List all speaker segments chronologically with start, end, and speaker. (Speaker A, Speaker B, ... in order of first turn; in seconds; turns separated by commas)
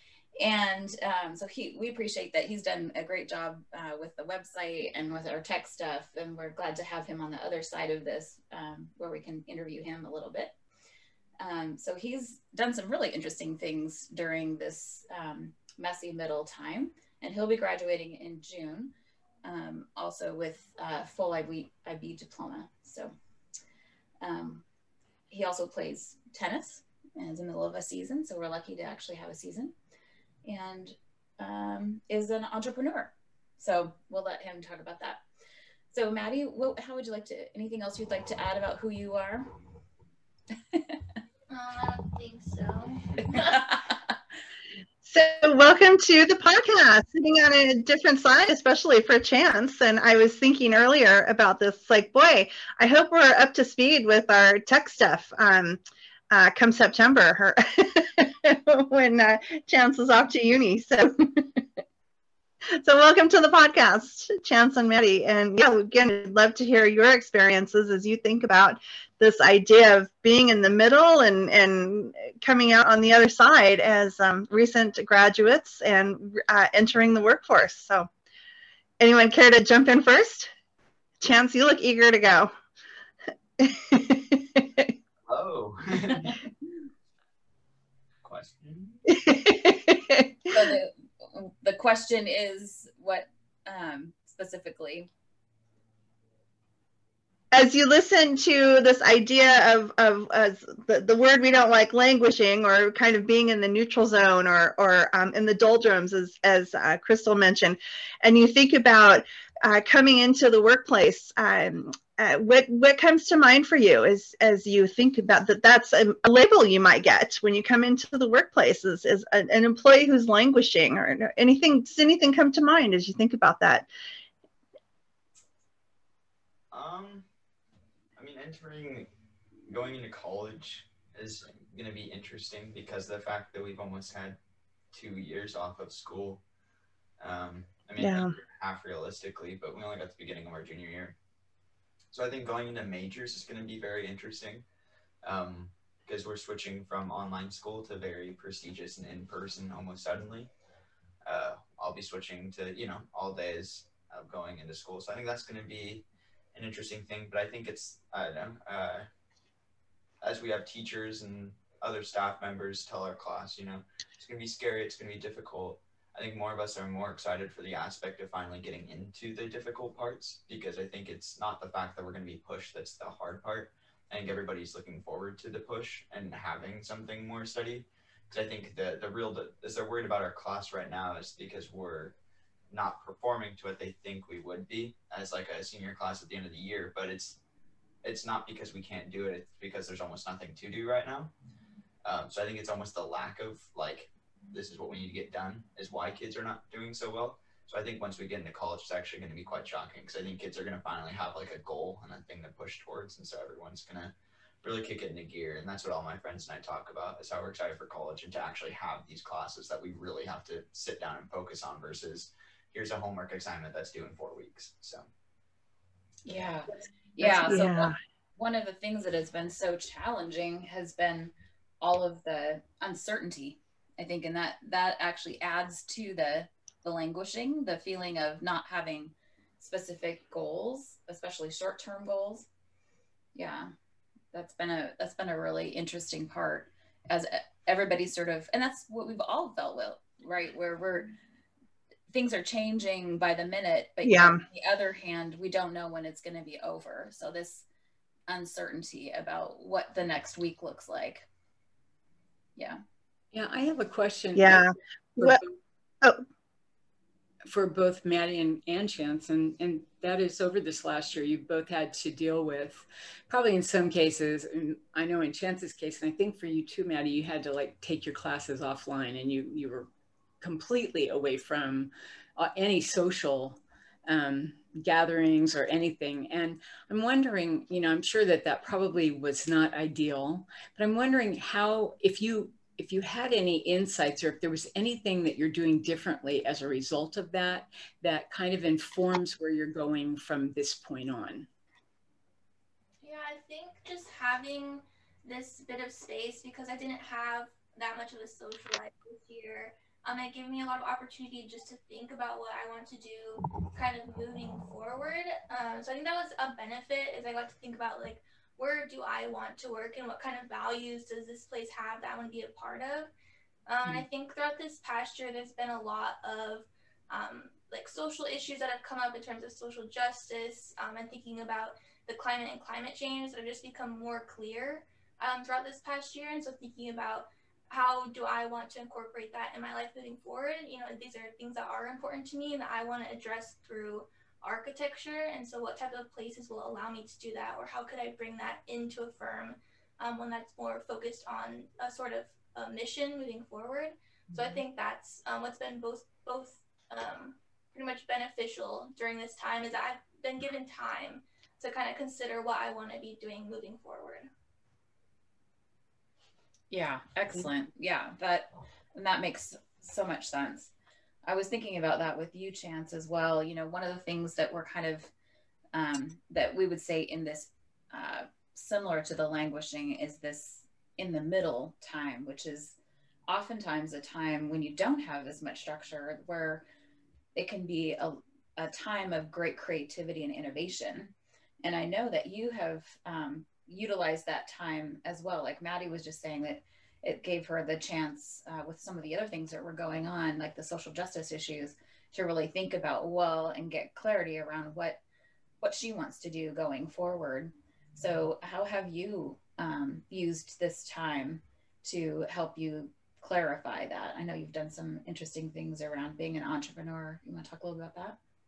Speaker A: 0.4-10.6, Speaker A: 11.4-18.9, Speaker A: 19.4-23.1, Speaker A: 24.2-24.6, Speaker A: 25.3-29.7, Speaker A: 30.4-35.2, Speaker A: 35.9-39.5, Speaker B: 41.5-43.7, Speaker C: 45.0-55.8, Speaker C: 56.3-61.6, Speaker C: 62.7-78.1, Speaker C: 79.0-80.5, Speaker C: 81.2-82.5, Speaker C: 83.6-84.9, Speaker D: 85.3-86.4, Speaker D: 88.2-89.1, Speaker C: 89.1-90.3, Speaker A: 90.5-95.1, Speaker C: 97.5-123.9, Speaker D: 126.7-127.3, Speaker D: 128.2-129.1, Speaker D: 129.7-134.4, Speaker D: 134.9-136.4, Speaker D: 137.2-141.2, Speaker C: 138.0-138.3, Speaker D: 142.1-144.7, Speaker D: 145.2-150.5, Speaker D: 151.2-159.1, Speaker D: 160.2-182.2, Speaker D: 182.7-187.4, Speaker D: 188.0-191.3, Speaker D: 192.1-215.1, Speaker A: 216.2-232.5, Speaker C: 217.5-217.9, Speaker A: 233.3-233.7, Speaker A: 234.3-241.1, Speaker A: 242.1-247.7, Speaker C: 244.0-244.4, Speaker A: 248.3-251.3, Speaker E: 253.3-255.6, Speaker C: 254.4-255.4, Speaker E: 257.5-269.9, Speaker E: 270.4-291.5, Speaker B: 293.0-313.1, Speaker B: 313.7-354.3, Speaker A: 356.7-360.7, Speaker A: 361.3-365.1, Speaker A: 365.7-372.8, Speaker A: 373.3-376.6, Speaker A: 377.4-395.0, Speaker A: 395.6-408.2